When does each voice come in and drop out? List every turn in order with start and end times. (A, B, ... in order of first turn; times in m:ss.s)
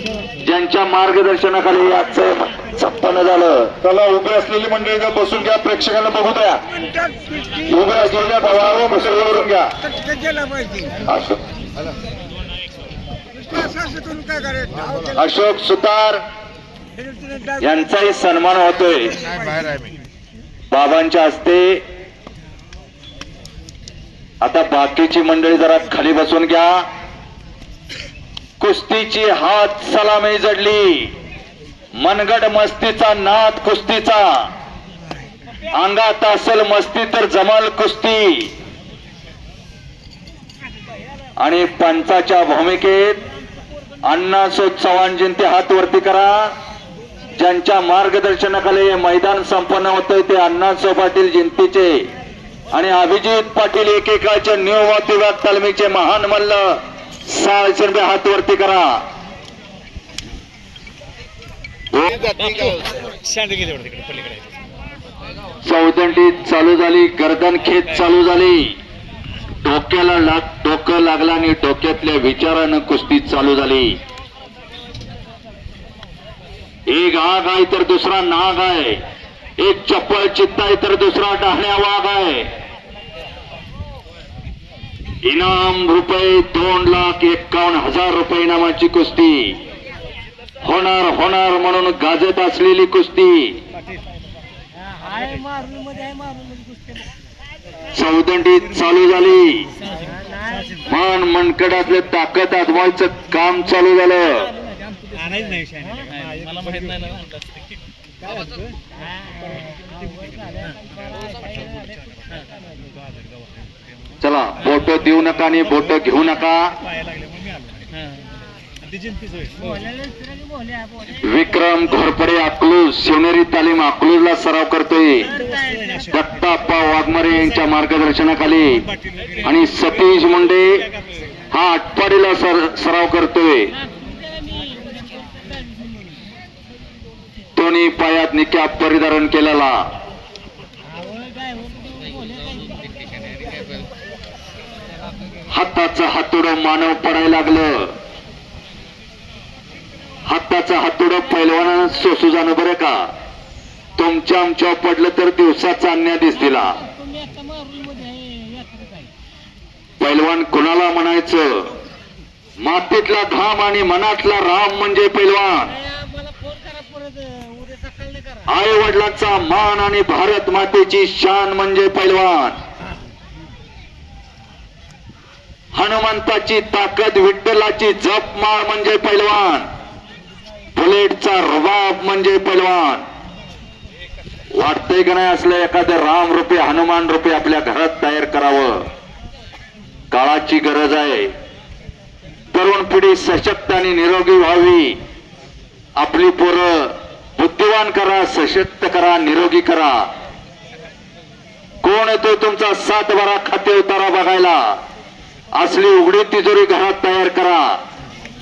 0:00.4-0:03.8 A
0:03.8-0:06.5 B
0:05.7-0:06.6 A
0:07.6-0:09.7 A
0:11.0-0:11.4 A
0:15.1-0:16.2 A
0:17.6-0:19.2 A
0:20.7-0:21.8 A
0:24.4-0:26.8 A
0:28.6-0:31.1 A
0:32.0-0:34.5 A
0:35.7-0:38.5 A
0:41.4-0:43.2 A
0:44.0-0:46.5 A
0:47.4-0:52.0 A
0:52.7-0:59.0 A
1:01.9-1:02.3 A
1:03.2-1:04.4 C
1:05.6-1:08.8 A
1:09.6-1:14.0 A
1:16.9-1:19.0 A
1:19.6-1:22.5 A
1:25.2-1:29.6 A
1:30.6-1:33.6 A
1:35.5-1:36.7 C
1:37.9-1:39.7 A
1:40.8-1:44.5 A
1:54.2-1:56.8 A
2:01.1-2:05.4 A
2:06.1-2:08.8 A
2:09.4-2:10.8 A
2:11.5-2:13.7 A
2:14.4-2:15.0 C
2:17.6-2:19.9 A
2:21.6-2:22.4 C
2:25.5-2:27.9 A
2:30.2-2:33.1 A
2:34.0-2:36.8 A
2:37.1-2:39.0 C
2:40.0-2:41.7 A
2:42.6-2:45.8 A
2:46.1-2:48.3 C
2:48.4-2:52.6 A
2:55.7-2:59.7 A
3:00.8-3:03.0 A
3:04.5-3:08.9 A
3:10.1-3:11.3 A
3:12.5-3:15.0 A
3:16.0-3:20.1 A
3:21.8-3:24.8 A
3:25.6-3:27.8 A